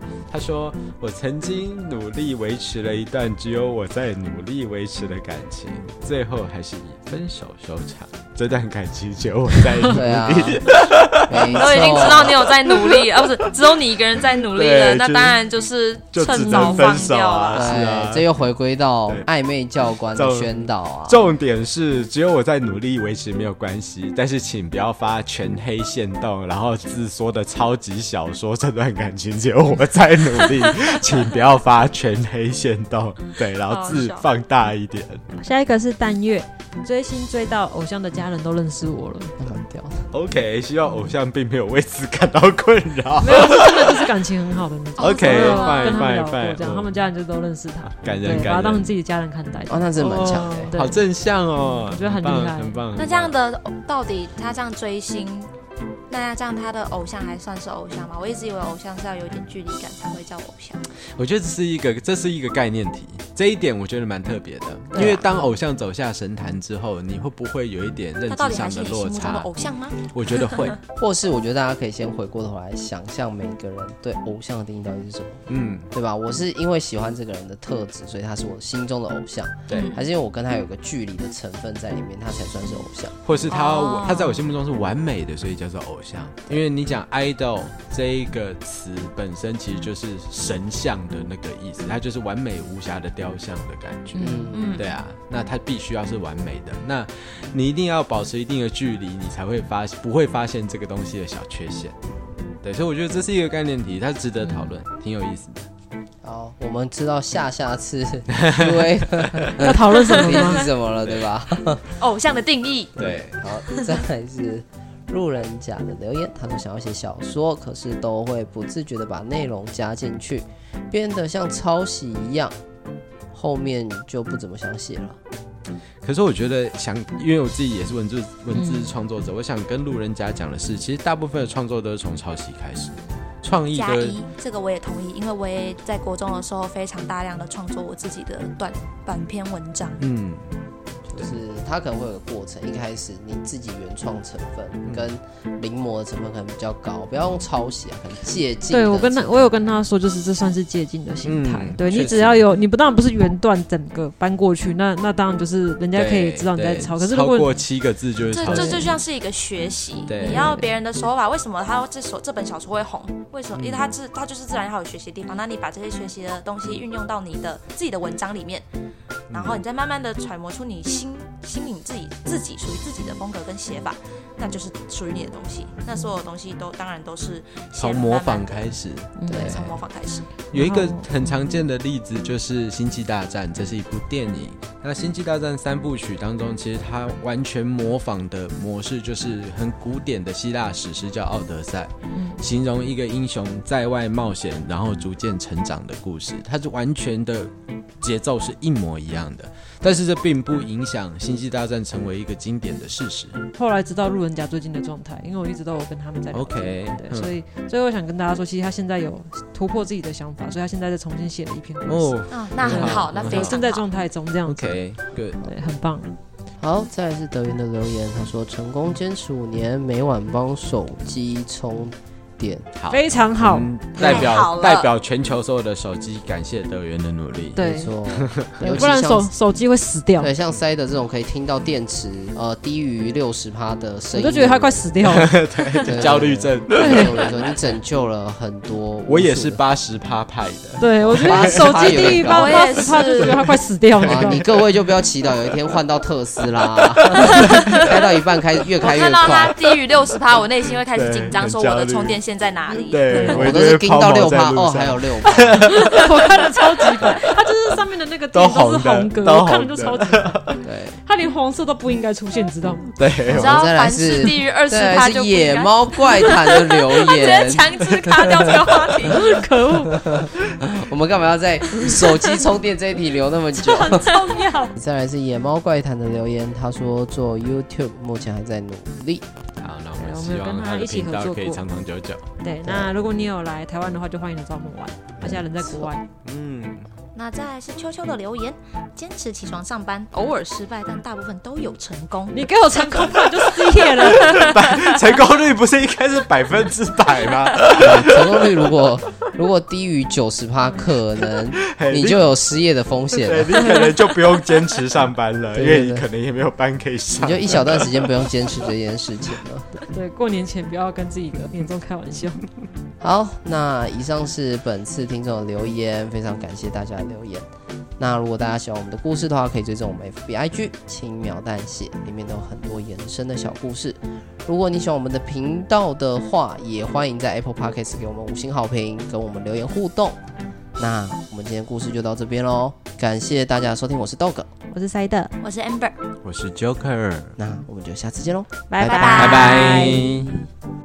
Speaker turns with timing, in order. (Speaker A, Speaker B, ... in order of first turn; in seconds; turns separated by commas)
Speaker A: 0.3-13.2, Speaker B: 9.9-12.4, Speaker C: 11.5-17.7, Speaker A: 14.4-15.4, Speaker A: 16.1-18.2, Speaker D: 16.3-17.0, Speaker B: 17.5-21.3, Speaker A: 20.1-20.5, Speaker A: 21.1-35.2, Speaker C: 33.7-34.2, Speaker D: 35.4-39.3, Speaker B: 39.4-40.1, Speaker A: 40.1-44.1, Speaker D: 43.2-51.0, Speaker C: 45.0-46.0, Speaker A: 45.0-46.9, Speaker A: 48.0-48.9, Speaker B: 49.7-50.7, Speaker A: 50.1-53.3, Speaker D: 51.8-52.8, Speaker C: 52.9-55.5, Speaker C: 56.1-60.9, Speaker A: 61.1-70.8, Speaker C: 64.9-65.3, Speaker C: 68.3-70.7, Speaker B: 70.9-83.2, Speaker A: 75.5-75.9, Speaker A: 79.7-79.9, Speaker C: 79.7-80.0, Speaker A: 83.2-101.9, Speaker C: 83.5-84.5, Speaker D: 94.1-94.7, Speaker B: 94.2-94.7, Speaker C: 94.5-94.9, Speaker A: 102.6-105.7, Speaker D: 104.4-104.7, Speaker B: 106.2-111.8, Speaker A: 108.4-108.8, Speaker D: 109.6-110.7, Speaker C: 112.0-113.0, Speaker A: 113.0-113.4, Speaker B: 113.0-122.5, Speaker B: 123.3-125.2, Speaker A: 126.0-134.2, Speaker D: 128.5-128.9, Speaker C: 133.7-140.0, Speaker A: 140.0-140.5, Speaker B: 141.1-149.5, Speaker D: 148.7-157.5, Speaker A: 151.2-152.4, Speaker A: 155.9-159.0, Speaker C: 158.3-168.6, Speaker D: 158.5-158.8, Speaker A: 160.1-160.6, Speaker D: 160.2-160.7, Speaker A: 163.5-163.9, Speaker A: 169.3-169.6, Speaker C: 169.3-178.7, Speaker A: 177.8-179.6, Speaker D: 179.2-179.5, Speaker C: 179.3-180.3, Speaker B: 179.3-179.8, Speaker A: 180.5-203.4, Speaker D: 180.5-181.0, Speaker D: 192.1-192.4, Speaker D: 203.5-214.8, Speaker A: 206.3-207.3, Speaker A: 211.8-213.6, Speaker C: 212.3-213.8, Speaker A: 214.4-215.4, Speaker D: 215.4-216.1, Speaker B: 216.6-222.7, Speaker A: 222.8-228.9, Speaker D: 222.9-224.2, Speaker C: 224.0-224.9, Speaker D: 227.5-227.9, Speaker B: 227.6-229.3, Speaker D: 228.6-230.3, Speaker B: 230.2-234.8, Speaker D: 234.1-235.8, Speaker A: 235.0-237.6, Speaker B: 235.8-239.6, Speaker D: 236.7-237.1, Speaker A: 239.1-242.0, Speaker D: 240.8-244.4, Speaker B: 241.0-242.8, Speaker C: 242.0-243.4, Speaker B: 244.0-249.5, Speaker A: 244.1-244.6, Speaker A: 246.9-247.9, Speaker C: 247.6-247.9, Speaker C: 248.8-253.3, Speaker A: 250.9-252.2, Speaker A: 252.9-256.1, Speaker D: 253.1-253.5, Speaker B: 253.2-255.9, Speaker D: 255.8-260.4, Speaker A: 258.3-260.6, Speaker B: 260.6-261.0, Speaker D: 261.0-262.9, Speaker A: 262.9-263.7, Speaker B: 263.2-268.6, Speaker C: 263.3-269.4, Speaker D: 269.0-270.2, Speaker B: 269.9-274.1, Speaker D: 273.6-274.7, Speaker B: 274.7-279.2, Speaker A: 279.6-282.2, Speaker D: 280.0-281.6, Speaker D: 282.4-286.0, Speaker B: 282.6-282.9, Speaker B: 285.2-285.9, Speaker A: 286.2-286.9, Speaker C: 287.1-292.4, Speaker D: 292.3-294.5, Speaker C: 292.9-294.9, Speaker A: 294.1-298.7, Speaker B: 297.7-303.8, Speaker A: 301.7-302.3, Speaker A: 303.1-308.1, Speaker B: 305.5-306.1, Speaker B: 307.1-309.7, Speaker D: 309.8-312.4, Speaker B: 313.0-330.2, Speaker B: 330.8-334.5, Speaker D: 334.7-335.3, Speaker C: 335.4-336.0, Speaker A: 336.2-337.4, Speaker B: 337.4-339.3, Speaker D: 338.7-340.1, Speaker C: 338.8-339.8, Speaker A: 339.1-340.4